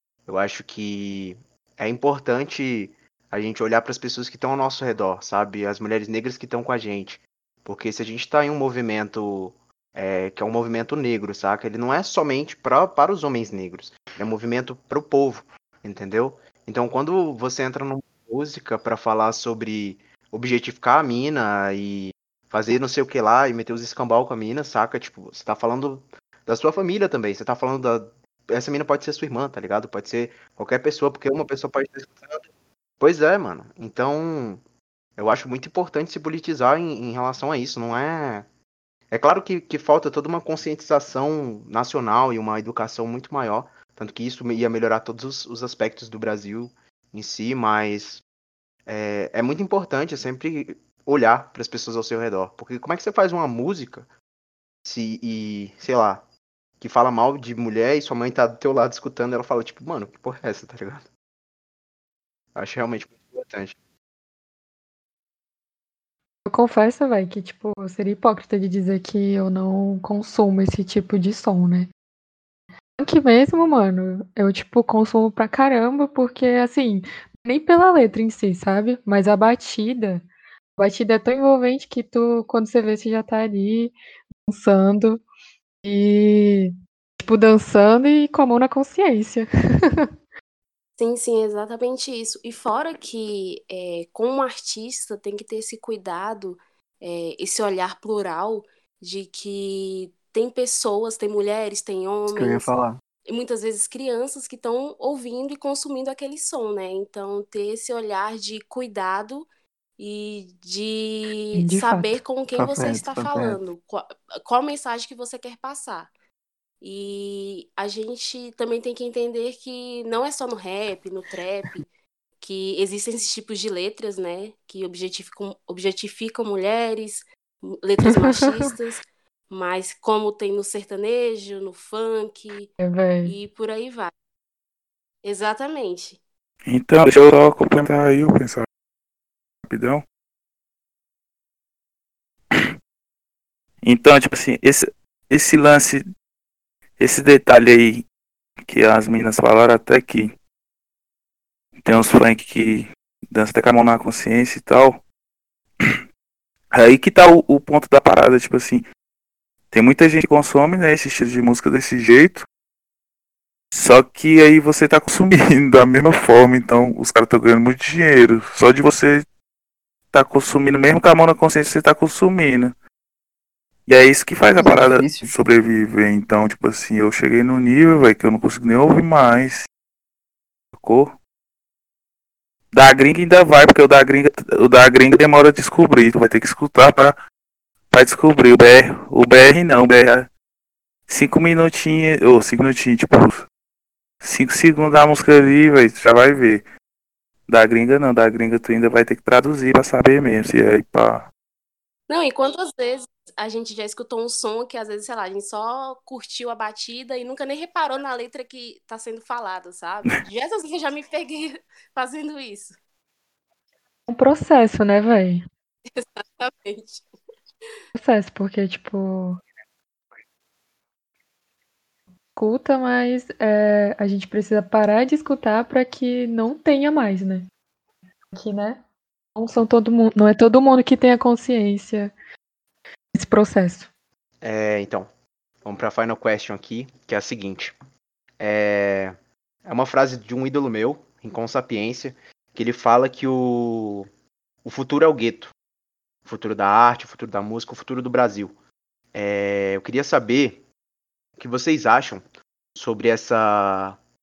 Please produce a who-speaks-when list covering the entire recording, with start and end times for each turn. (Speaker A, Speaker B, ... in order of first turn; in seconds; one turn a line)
Speaker A: 0.2-32.5
Speaker A: 33.0-34.6
Speaker A: 35.2-38.5
Speaker A: 39.1-48.2
Speaker A: 48.9-54.1
Speaker A: 54.8-61.1
Speaker A: 62.5-63.8
Speaker B: 66.5-71.9
Speaker B: 73.0-80.2
Speaker B: 80.8-84.0
Speaker B: 84.5-85.2
Speaker B: 85.8-90.1
Speaker C: 91.0-102.7
Speaker D: 102.3-103.0
Speaker C: 103.2-116.1
Speaker B: 111.5-112.2
Speaker D: 112.5-113.6
Speaker C: 116.8-132.7
Speaker B: 128.0-128.7
Speaker B: 132.8-133.3
Speaker C: 133.2-134.1
Speaker C: 135.2-136.2
Speaker E: 136.7-138.7
Speaker E: 139.7-140.0
Speaker E: 143.8-146.0
Speaker E: 147.0-148.0
Speaker E: 148.7-150.3
Speaker E: 151.8-155.0
Speaker E: 156.7-158.8
Speaker E: 159.7-162.4
Speaker E: 163.7-169.2
Speaker E: 170.1-172.7
Speaker E: 173.9-179.7
Speaker D: 174.6-175.4
Speaker E: 180.7-181.2
Speaker E: 182.7-187.2
Speaker E: 187.9-190.3
Speaker E: 191.1-193.4
Speaker E: 194.2-196.6
Speaker E: 197.5-201.3
Speaker C: 202.1-212.8
Speaker B: 214.1-215.4
Speaker C: 215.9-217.1
Speaker B: 217.9-219.4
Speaker B: 222.3-227.5
Speaker B: 228.3-228.8
Speaker B: 229.3-232.1
Speaker B: 233.1-233.9
Speaker A: 234.4-235.1
Speaker A: 235.6-237.8
Speaker A: 238.4-244.1
Speaker A: 244.6-245.5
Speaker A: 246.2-248.6
Speaker A: 249.1-250.6
Speaker A: 251.4-254.0